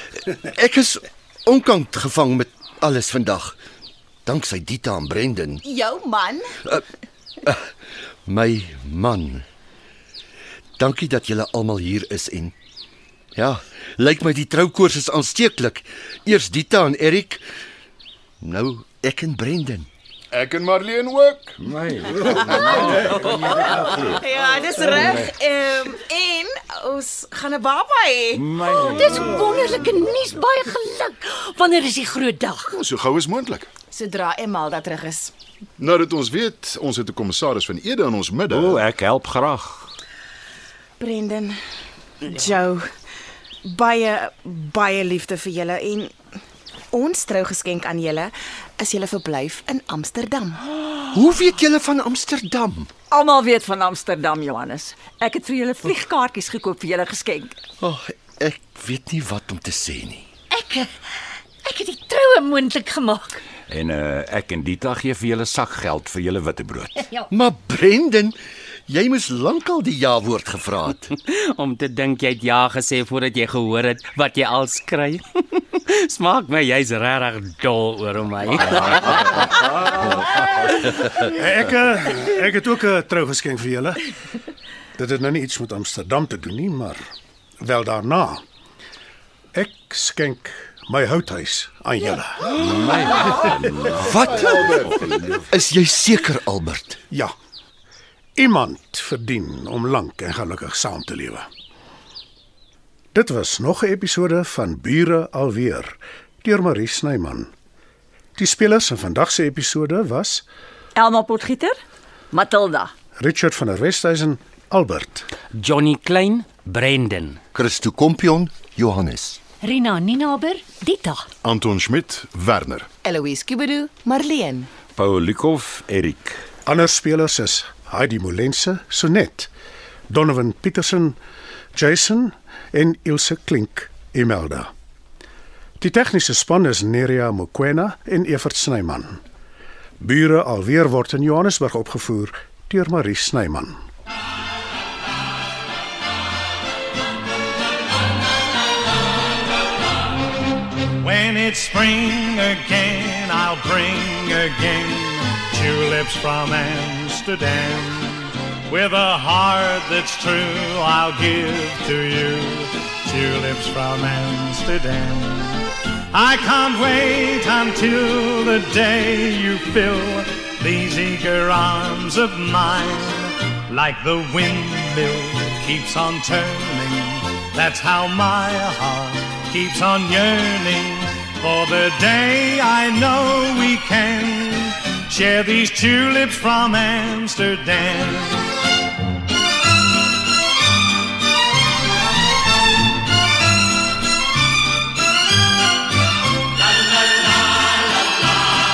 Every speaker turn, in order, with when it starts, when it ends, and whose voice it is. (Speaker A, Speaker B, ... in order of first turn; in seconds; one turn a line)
Speaker A: 0.3-3.6
Speaker A: 4.2-5.6
Speaker B: 5.7-6.5
Speaker A: 8.2-9.4
Speaker A: 10.8-12.5
Speaker A: 13.3-17.4
Speaker A: 18.4-19.9
Speaker C: 20.3-21.6
Speaker D: 21.6-24.2
Speaker C: 22.3-23.2
Speaker B: 24.3-28.4
Speaker D: 28.3-29.1
Speaker E: 28.8-32.7
Speaker C: 32.7-33.7
Speaker B: 33.9-35.3
Speaker C: 35.8-38.9
Speaker D: 38.5-39.9
Speaker B: 41.0-41.5
Speaker B: 42.2-42.9
Speaker B: 43.7-46.1
Speaker B: 46.9-50.6
Speaker A: 51.1-52.9
Speaker F: 54.3-55.4
Speaker F: 56.3-57.4
Speaker A: 57.8-60.2
Speaker E: 60.5-60.9
Speaker E: 61.6-63.4
Speaker D: 63.7-67.0
Speaker A: 67.3-68.3
Speaker A: 68.9-71.1
Speaker G: 71.2-79.6
Speaker H: 81.2-84.0
Speaker H: 85.0-87.0
Speaker H: 87.6-88.4
Speaker H: 89.5-92.5
Speaker D: 92.6-95.4
Speaker A: 94.0-94.8
Speaker C: 94.2-95.4
Speaker A: 95.5-97.0
Speaker H: 98.4-101.5
Speaker H: 103.1-107.5
Speaker H: 108.4-110.4
Speaker F: 111.0-111.7
Speaker F: 112.5-112.9
Speaker H: 113.2-115.3
Speaker G: 115.5-117.4
Speaker A: 117.5-119.4
Speaker E: 119.6-121.2
Speaker C: 121.4-122.9
Speaker B: 123.0-124.7
Speaker D: 124.9-126.4
Speaker H: 126.7-129.5
Speaker H: 130.1-131.2
Speaker H: 131.7-134.7
Speaker H: 135.8-139.2
Speaker H: 140.0-143.8
Speaker I: 151.0-188.5